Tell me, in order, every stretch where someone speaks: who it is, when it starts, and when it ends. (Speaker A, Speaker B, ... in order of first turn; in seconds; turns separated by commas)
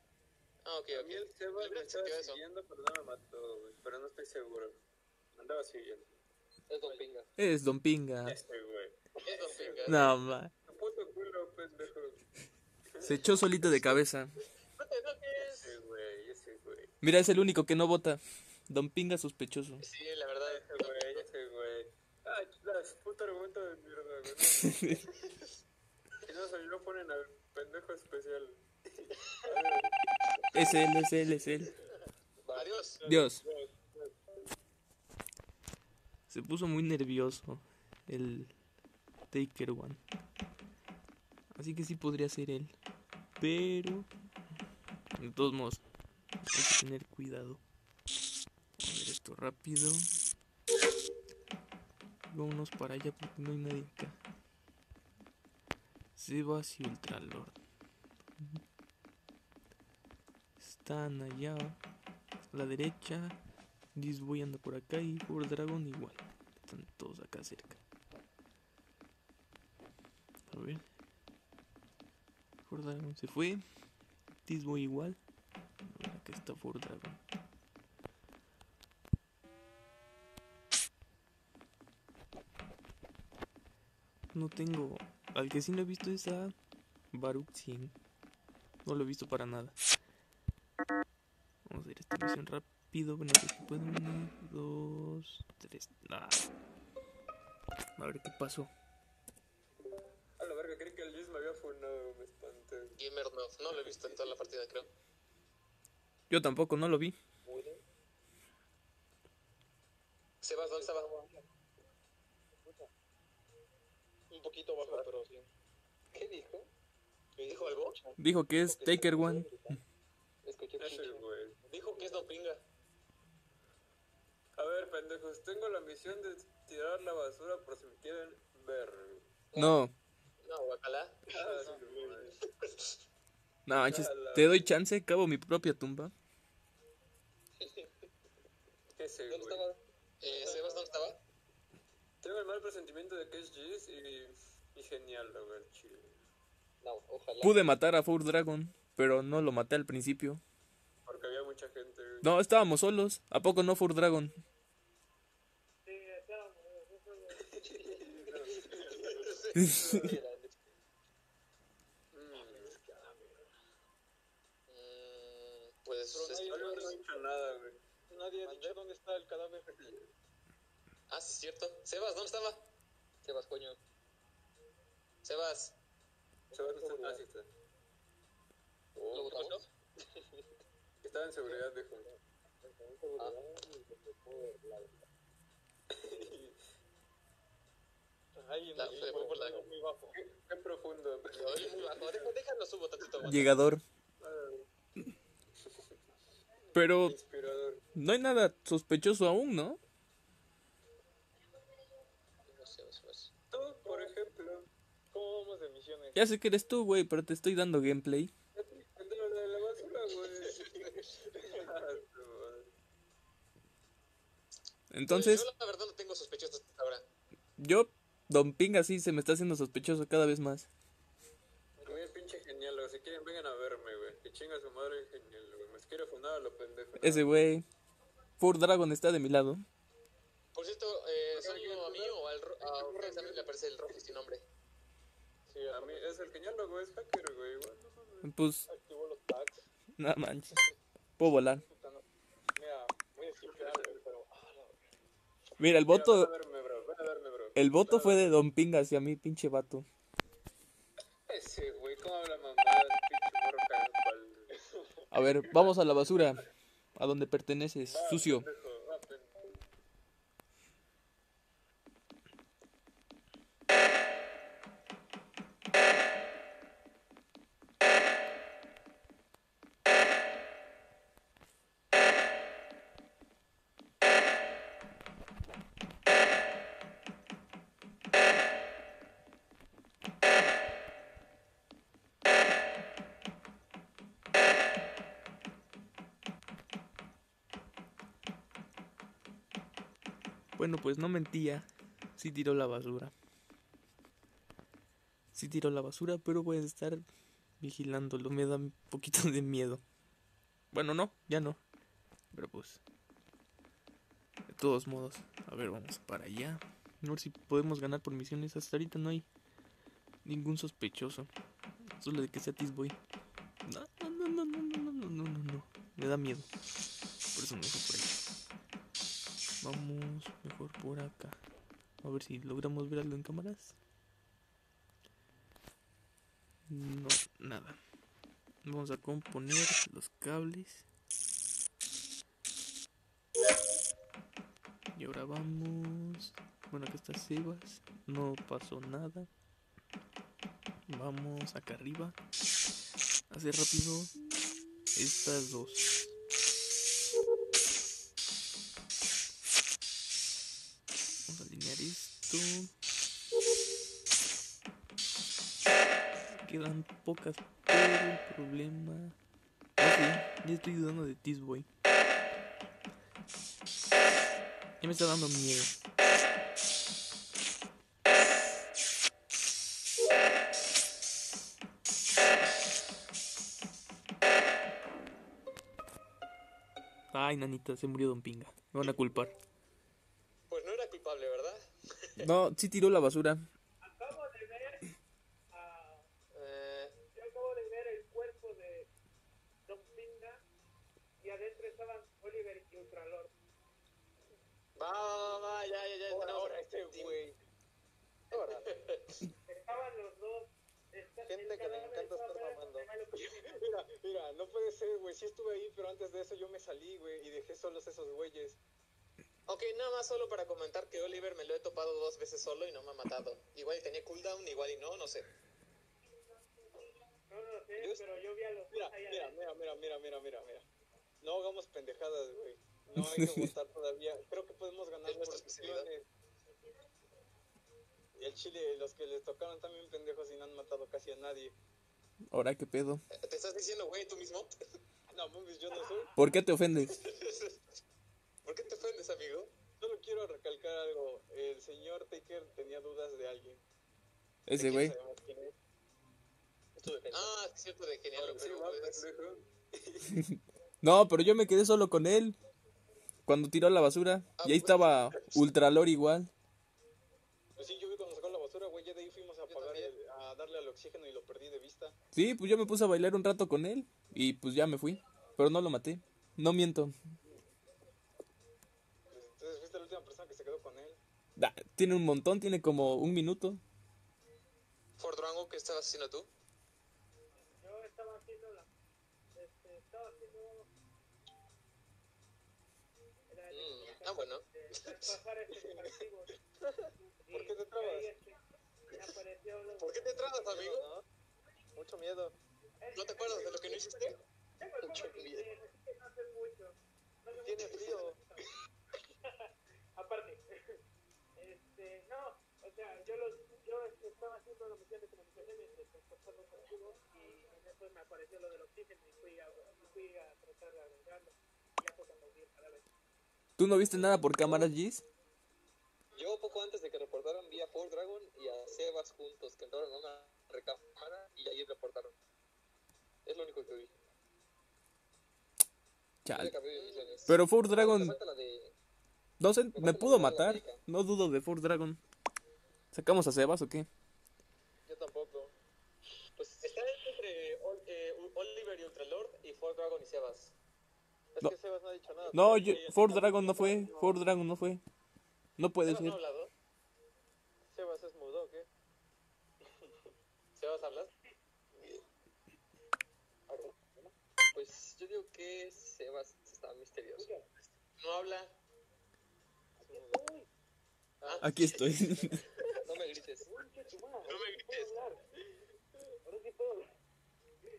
Speaker A: 0.6-2.4, Speaker B: 0.9-4.8, Speaker B: 5.3-6.1, Speaker C: 6.7-7.2, Speaker B: 6.7-7.2, Speaker D: 7.4-8.4, Speaker B: 8.2-12.2, Speaker A: 9.2-10.1, Speaker D: 9.8-10.5, Speaker B: 12.9-14.0, Speaker D: 13.0-14.3, Speaker A: 14.8-15.8, Speaker B: 15.4-16.9, Speaker D: 17.0-19.8, Speaker A: 19.8-21.2, Speaker B: 20.4-24.9, Speaker D: 24.5-25.0, Speaker B: 26.2-29.9, Speaker D: 30.5-31.7, Speaker C: 32.5-32.7, Speaker A: 32.5-33.0, Speaker D: 33.0-33.4, Speaker B: 33.0-34.1, Speaker D: 36.3-38.5, Speaker D: 39.3-40.0, Speaker D: 41.5-42.7, Speaker D: 43.4-44.1, Speaker D: 45.2-45.8, Speaker D: 46.5-47.6, Speaker D: 48.8-50.0, Speaker D: 52.3-54.2, Speaker D: 56.2-57.5, Speaker D: 60.6-61.8, Speaker D: 62.5-63.4, Speaker D: 63.9-67.8, Speaker D: 70.5-70.8, Speaker D: 72.7-73.6, Speaker D: 74.4-75.2, Speaker D: 75.9-77.2, Speaker D: 84.3-86.5, Speaker D: 87.1-87.9, Speaker D: 88.8-89.8, Speaker D: 91.7-96.4, Speaker D: 98.0-98.7, Speaker B: 100.4-103.0, Speaker A: 103.0-104.9, Speaker B: 103.7-104.4, Speaker D: 106.3-107.1, Speaker C: 107.5-107.8, Speaker A: 110.4-111.2, Speaker E: 114.3-115.5, Speaker B: 114.8-115.1, Speaker C: 116.1-116.7, Speaker E: 117.3-117.7, Speaker A: 117.4-118.0, Speaker C: 117.5-118.1, Speaker D: 118.2-119.7, Speaker E: 118.6-119.5, Speaker C: 120.4-121.2, Speaker B: 120.8-121.6, Speaker A: 121.7-122.6, Speaker B: 124.5-129.3, Speaker C: 129.5-129.8, Speaker D: 129.6-129.9, Speaker A: 130.4-131.2, Speaker B: 131.3-132.4, Speaker E: 131.4-132.2, Speaker D: 133.7-136.1, Speaker B: 133.7-134.7, Speaker C: 137.6-137.9, Speaker B: 138.9-140.9, Speaker C: 139.3-139.8, Speaker A: 140.2-141.2, Speaker E: 140.3-140.8, Speaker B: 142.2-146.2, Speaker C: 146.8-147.6, Speaker D: 147.4-150.4, Speaker B: 151.1-152.3, Speaker D: 152.2-154.4, Speaker F: 155.8-157.6, Speaker B: 157.5-159.3, Speaker E: 158.6-159.3, Speaker A: 158.7-159.7, Speaker D: 159.6-160.0, Speaker C: 159.7-160.5, Speaker B: 162.1-162.8, Speaker E: 162.3-163.4, Speaker A: 164.7-166.9, Speaker E: 166.1-167.0, Speaker B: 166.4-167.8, Speaker E: 168.1-169.9, Speaker B: 169.7-170.1, Speaker A: 171.1-172.7, Speaker C: 173.2-173.8, Speaker A: 175.2-175.8, Speaker B: 176.5-177.5, Speaker B: 178.9-179.6, Speaker C: 179.1-179.7, Speaker B: 181.0-182.2, Speaker C: 182.8-183.4, Speaker B: 183.2-183.7, Speaker B: 185.9-186.6, Speaker E: 188.3-190.2, Speaker A: 188.8-189.7, Speaker B: 190.1-192.4, Speaker A: 191.3-193.5, Speaker D: 193.2-193.8, Speaker B: 194.2-194.7, Speaker D: 196.7-197.2, Speaker B: 197.0-197.8, Speaker D: 197.9-199.8, Speaker A: 202.4-203.3, Speaker B: 203.5-204.7, Speaker E: 203.8-204.1, Speaker E: 205.1-206.2, Speaker D: 206.1-208.3, Speaker B: 208.5-212.7, Speaker A: 210.5-210.9, Speaker D: 214.9-215.5, Speaker A: 215.1-217.0, Speaker D: 217.6-220.7, Speaker B: 221.8-227.3, Speaker D: 227.0-227.6, Speaker D: 228.4-229.6, Speaker A: 230.5-234.4, Speaker B: 231.3-233.6, Speaker E: 235.5-236.1, Speaker B: 235.7-238.3, Speaker D: 238.2-238.7, Speaker E: 238.7-239.7, Speaker D: 240.0-240.6, Speaker D: 241.2-241.6, Speaker E: 241.7-244.8, Speaker B: 243.4-244.0, Speaker D: 245.6-246.3, Speaker B: 245.9-248.3, Speaker D: 247.5-249.8, Speaker B: 251.3-254.6, Speaker D: 255.1-256.4, Speaker B: 255.4-255.7, Speaker D: 256.9-258.5, Speaker B: 257.9-259.5, Speaker D: 290.6-293.1, Speaker D: 295.3-297.0, Speaker D: 297.6-299.8, Speaker D: 300.7-301.6, Speaker D: 302.3-302.8, Speaker D: 304.5-309.3, Speaker D: 310.2-311.3, Speaker D: 311.9-312.9, Speaker D: 313.6-316.5, Speaker D: 317.3-318.2, Speaker D: 319.6-321.4, Speaker D: 322.0-323.8, Speaker D: 326.7-327.8, Speaker D: 328.6-330.8, Speaker D: 334.9-339.3, Speaker D: 340.9-342.1, Speaker D: 343.3-344.1, Speaker D: 344.9-346.1, Speaker D: 351.3-352.7, Speaker D: 356.4-359.1, Speaker D: 359.8-361.7, Speaker D: 364.8-365.7, Speaker D: 377.1-379.3, Speaker A: 380.5-382.3, Speaker D: 382.2-383.4, Speaker F: 383.8-384.9, Speaker F: 385.5-386.1, Speaker A: 386.3-386.9, Speaker F: 387.1-388.9, Speaker F: 389.6-390.4, Speaker F: 391.2-393.3, Speaker A: 394.8-397.1, Speaker E: 396.1-397.4, Speaker E: 398.3-398.6, Speaker A: 398.3-399.2, Speaker F: 399.5-403.6, Speaker E: 401.2-408.6, Speaker A: 409.4-415.3, Speaker F: 417.3-419.4, Speaker E: 418.7-420.6, Speaker E: 421.2-426.1, Speaker D: 423.0-423.4, Speaker A: 425.0-425.9, Speaker E: 428.2-431.5, Speaker D: 432.3-433.0, Speaker A: 433.1-434.5, Speaker E: 435.1-436.1, Speaker D: 436.1-436.9, Speaker A: 436.9-437.6, Speaker A: 438.4-439.5, Speaker E: 439.8-443.6, Speaker D: 444.5-444.9, Speaker E: 444.5-445.5, Speaker C: 446.8-447.3, Speaker A: 447.1-449.0, Speaker B: 448.1-450.1, Speaker D: 450.8-452.4, Speaker D: 453.2-456.3, Speaker A: 454.4-455.2, Speaker E: 457.6-461.9, Speaker C: 459.5-459.9, Speaker D: 462.1-466.9, Speaker E: 469.1-471.0, Speaker D: 471.4-473.6, Speaker A: 475.0-476.3, Speaker F: 477.6-478.7, Speaker F: 479.3-480.7, Speaker F: 483.3-486.3, Speaker C: 483.5-483.9, Speaker A: 483.8-484.4, Speaker F: 487.2-490.6, Speaker E: 487.3-488.1, Speaker A: 489.8-490.9, Speaker E: 490.5-491.0, Speaker E: 491.7-492.3, Speaker F: 492.8-498.4, Speaker A: 492.9-494.1, Speaker C: 494.8-495.5, Speaker E: 497.4-498.2, Speaker F: 499.9-500.5, Speaker F: 501.4-512.8, Speaker D: 513.6-515.0, Speaker C: 514.0-514.7, Speaker C: 516.1-522.1, Speaker C: 523.2-523.9, Speaker D: 526.2-526.5, Speaker C: 526.3-528.7, Speaker A: 526.7-527.3, Speaker D: 527.3-528.1, Speaker D: 529.4-532.0, Speaker C: 529.7-530.8, Speaker D: 532.9-533.9, Speaker E: 534.9-535.5, Speaker C: 536.4-536.7, Speaker A: 536.6-540.5, Speaker E: 541.3-544.2, Speaker D: 542.3-544.8, Speaker D: 545.6-546.2, Speaker A: 545.8-546.5, Speaker E: 547.7-548.7, Speaker A: 550.5-551.1, Speaker C: 554.5-557.3, Speaker A: 558.0-558.5, Speaker E: 559.8-560.2, Speaker F: 559.8-560.5, Speaker E: 561.2-561.5, Speaker A: 561.2-561.8, Speaker D: 561.4-562.4, Speaker C: 562.8-563.5, Speaker F: 563.5-565.2, Speaker A: 564.2-564.9, Speaker F: 566.2-566.9